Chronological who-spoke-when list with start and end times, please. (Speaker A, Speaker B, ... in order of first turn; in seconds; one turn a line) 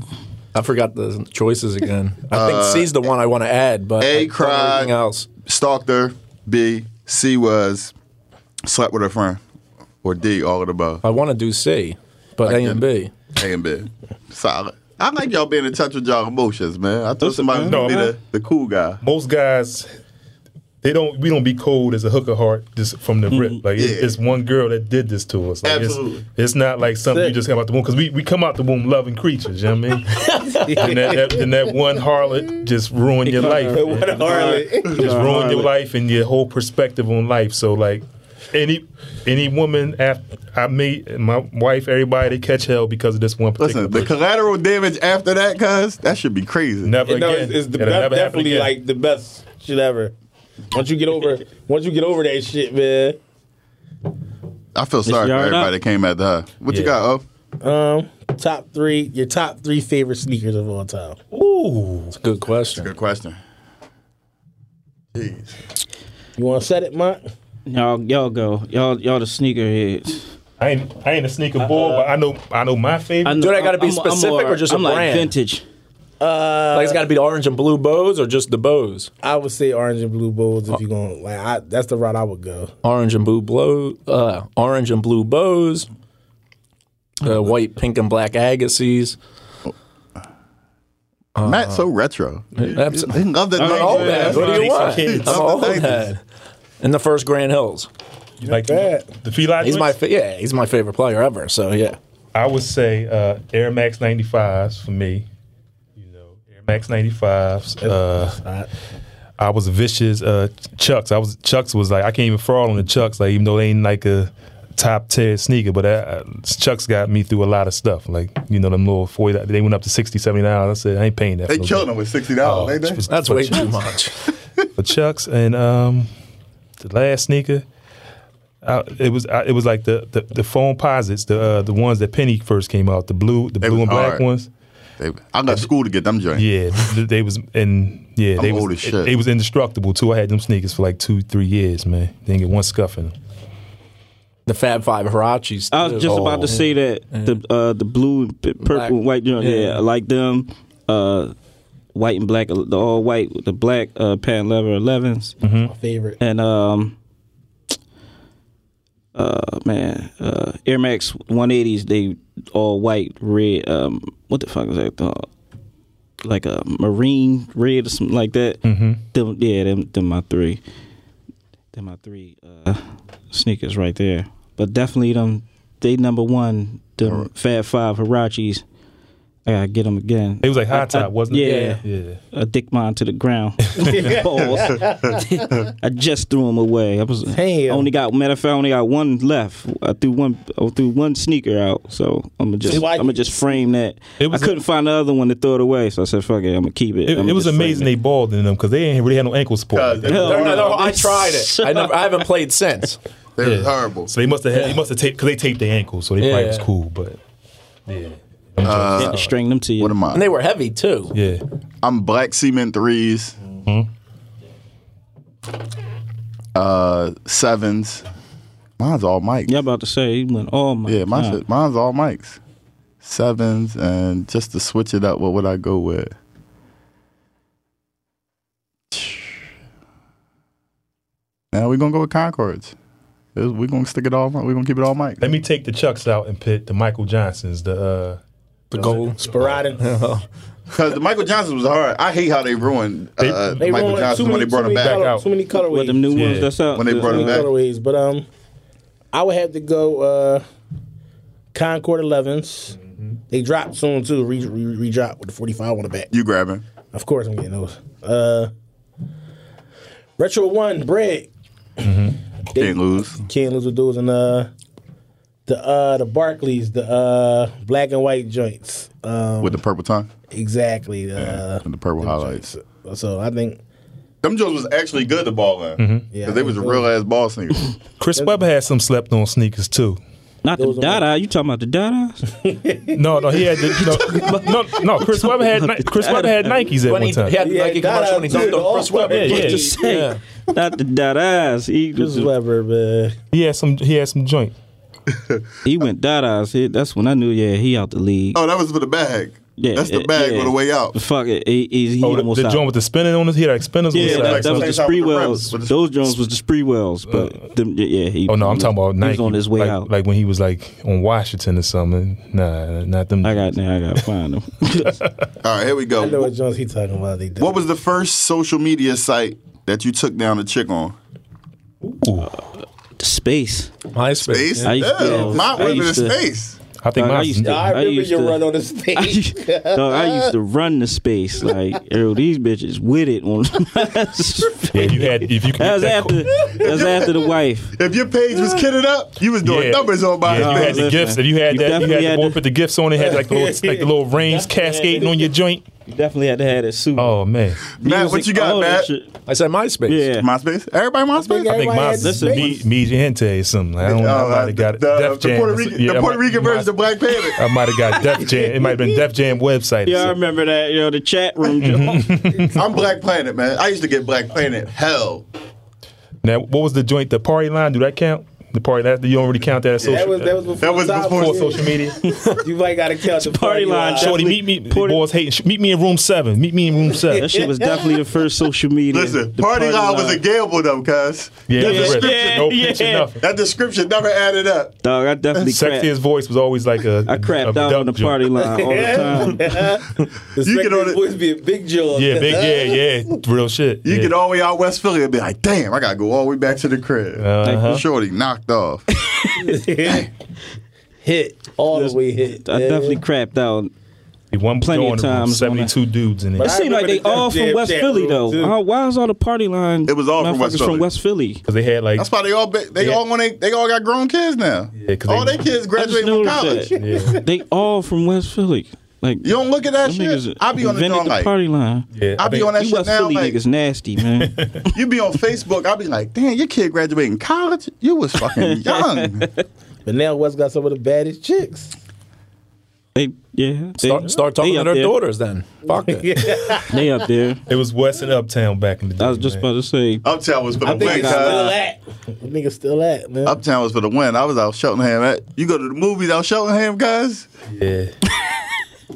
Speaker A: 0.5-5.3
Speaker B: 2.3-2.9
Speaker B: 4.0-7.9
Speaker B: 8.7-9.4
Speaker B: 10.0-11.0
Speaker A: 11.0-13.1
Speaker B: 12.4-19.0
Speaker C: 17.2-18.1
Speaker D: 17.7-18.1
Speaker D: 19.0-19.9
Speaker D: 20.8-44.1
Speaker C: 23.3-23.6
Speaker B: 23.8-24.2
Speaker B: 25.6-26.2
Speaker E: 27.1-27.4
Speaker A: 30.4-30.7
Speaker E: 30.5-31.7
Speaker E: 33.4-35.1
Speaker C: 34.0-35.7
Speaker B: 43.6-47.0
Speaker D: 46.8-48.7
Speaker E: 47.0-50.1
Speaker E: 50.7-53.2
Speaker B: 54.8-57.2
Speaker C: 55.0-55.7
Speaker D: 56.7-56.9
Speaker E: 57.6-61.2
Speaker D: 61.3-62.1
Speaker A: 62.1-62.9
Speaker B: 62.7-63.4
Speaker B: 65.1-65.5
Speaker E: 66.4-67.2
Speaker C: 67.7-70.2
Speaker D: 70.6-73.5
Speaker C: 71.6-72.0
Speaker C: 73.2-75.6
Speaker A: 73.4-75.3
Speaker E: 76.2-77.0
Speaker A: 76.7-79.1
Speaker E: 79.2-82.7
Speaker A: 82.8-85.9
Speaker A: 87.2-89.2
Speaker A: 91.4-91.9
Speaker B: 91.4-96.1
Speaker A: 92.6-96.2
Speaker C: 93.5-94.7
Speaker D: 93.6-95.8
Speaker A: 96.8-97.9
Speaker D: 98.4-100.0
Speaker E: 98.5-99.1
Speaker A: 99.6-102.0
Speaker D: 102.3-105.3
Speaker D: 106.0-108.4
Speaker E: 107.8-108.7
Speaker D: 109.4-121.9
Speaker B: 121.5-123.0
Speaker D: 122.4-123.9
Speaker A: 123.1-124.3
Speaker D: 124.8-126.1
Speaker D: 126.8-127.7
Speaker D: 128.6-134.5
Speaker B: 133.6-134.2
Speaker B: 135.0-136.5
Speaker D: 136.3-143.1
Speaker B: 138.4-139.2
Speaker A: 144.5-147.4
Speaker C: 145.7-151.3
Speaker A: 148.6-149.8
Speaker C: 151.9-155.4
Speaker D: 155.4-155.7
Speaker E: 155.7-156.2
Speaker C: 156.2-157.0
Speaker C: 159.2-165.3
Speaker C: 166.2-168.6
Speaker D: 168.7-169.0
Speaker C: 169.1-170.6
Speaker C: 171.7-178.6
Speaker B: 177.0-177.3
Speaker C: 179.5-197.9
Speaker D: 180.4-182.2
Speaker A: 181.4-181.8
Speaker D: 183.7-184.0
Speaker E: 183.8-185.4
Speaker B: 184.5-185.7
Speaker E: 187.3-187.9
Speaker E: 192.7-193.3
Speaker D: 194.2-194.6
Speaker D: 197.1-200.5
Speaker B: 199.7-200.9
Speaker C: 200.1-202.2
Speaker A: 200.1-203.0
Speaker B: 203.4-204.1
Speaker D: 203.4-207.2
Speaker A: 204.5-204.8
Speaker A: 206.2-206.7
Speaker D: 207.9-209.3
Speaker B: 208.6-209.2
Speaker C: 209.0-210.0
Speaker B: 209.8-210.3
Speaker A: 210.1-211.2
Speaker D: 211.1-211.4
Speaker B: 211.8-213.4
Speaker B: 216.6-218.1
Speaker B: 218.8-219.5
Speaker C: 219.5-221.4
Speaker B: 220.9-222.4
Speaker B: 223.0-226.1
Speaker B: 228.9-229.3
Speaker B: 231.5-232.7
Speaker B: 233.3-235.3
Speaker D: 235.2-238.2
Speaker A: 238.7-240.2
Speaker E: 238.9-239.9
Speaker B: 240.7-245.0
Speaker D: 243.2-245.2
Speaker E: 243.6-246.4
Speaker C: 245.6-247.5
Speaker D: 246.1-246.5
Speaker B: 246.7-247.5
Speaker E: 246.9-248.3
Speaker E: 249.1-250.4
Speaker E: 251.5-252.8
Speaker E: 253.3-256.1
Speaker B: 256.1-256.6
Speaker E: 256.9-258.5
Speaker E: 260.2-261.3
Speaker D: 261.8-262.2
Speaker E: 262.5-264.5
Speaker B: 262.6-263.2
Speaker E: 265.5-269.6
Speaker B: 269.4-270.1
Speaker E: 270.3-273.6
Speaker B: 271.2-272.4
Speaker B: 274.2-277.7
Speaker D: 275.8-276.1
Speaker E: 276.1-276.9
Speaker D: 278.0-280.0
Speaker C: 280.4-282.2
Speaker E: 280.6-281.1
Speaker E: 282.4-284.2
Speaker D: 282.9-287.4
Speaker C: 283.7-286.6
Speaker A: 286.9-290.2
Speaker E: 287.4-289.7
Speaker D: 289.1-289.7
Speaker C: 289.3-292.3
Speaker E: 292.0-293.2
Speaker D: 293.3-294.6
Speaker B: 295.1-295.4
Speaker C: 295.6-298.4
Speaker B: 298.4-301.0
Speaker C: 299.6-302.7
Speaker D: 302.0-304.8
Speaker C: 303.9-309.9
Speaker B: 303.9-305.8
Speaker D: 308.3-313.5
Speaker C: 313.2-315.0
Speaker D: 314.9-315.1
Speaker B: 315.4-316.3
Speaker E: 316.0-317.6
Speaker B: 317.4-321.0
Speaker D: 321.8-322.3
Speaker C: 323.0-323.7
Speaker A: 323.9-325.4
Speaker B: 324.2-326.6
Speaker C: 324.6-326.2
Speaker E: 325.0-325.4
Speaker D: 326.8-327.6
Speaker C: 326.9-328.4
Speaker E: 327.4-330.3
Speaker C: 329.0-337.8
Speaker D: 334.7-336.5
Speaker B: 336.6-337.2
Speaker B: 337.8-340.9
Speaker D: 339.4-345.7
Speaker C: 340.3-342.4
Speaker E: 343.0-345.3
Speaker C: 345.9-349.1
Speaker D: 347.0-347.7
Speaker B: 347.8-348.9
Speaker A: 349.3-350.1
Speaker C: 349.9-350.3
Speaker B: 350.2-351.5
Speaker E: 351.1-352.6
Speaker D: 351.5-356.7
Speaker C: 352.0-352.6
Speaker B: 353.8-357.4
Speaker D: 357.3-360.2
Speaker C: 359.9-362.1
Speaker D: 361.6-362.6
Speaker B: 362.5-365.3
Speaker D: 366.2-372.1
Speaker E: 369.8-374.3
Speaker B: 370.6-371.7
Speaker C: 373.2-375.0
Speaker D: 374.0-377.4
Speaker C: 377.1-380.2
Speaker E: 377.3-377.9
Speaker B: 378.9-382.2
Speaker D: 381.5-383.2
Speaker C: 381.6-383.1
Speaker B: 383.2-384.7
Speaker C: 384.8-385.9
Speaker D: 385.4-388.3
Speaker C: 387.1-389.7
Speaker E: 388.4-392.8
Speaker B: 390.4-391.0
Speaker D: 391.9-394.1
Speaker B: 393.8-398.9
Speaker D: 397.2-397.8
Speaker C: 397.4-397.8
Speaker C: 399.0-399.4
Speaker E: 399.4-400.1
Speaker E: 401.0-403.0
Speaker C: 401.7-403.7
Speaker D: 404.3-406.5
Speaker C: 404.6-405.7
Speaker E: 406.4-408.5
Speaker C: 406.4-411.4
Speaker B: 409.9-410.9
Speaker D: 411.5-412.1
Speaker B: 412.0-416.8
Speaker D: 414.8-415.4
Speaker C: 415.8-424.7
Speaker D: 416.8-417.2
Speaker E: 416.8-417.2
Speaker B: 419.2-421.3
Speaker D: 422.0-422.5
Speaker B: 422.2-423.4
Speaker D: 424.2-424.7
Speaker B: 424.7-429.3
Speaker C: 428.2-429.4
Speaker E: 429.9-431.7
Speaker C: 432.9-435.0
Speaker A: 433.8-436.1
Speaker E: 435.7-436.9
Speaker C: 436.6-437.4
Speaker D: 437.5-439.5
Speaker C: 439.0-440.1
Speaker B: 440.0-441.5
Speaker E: 440.6-443.4
Speaker C: 440.6-441.6
Speaker B: 443.2-447.3
Speaker D: 447.5-447.9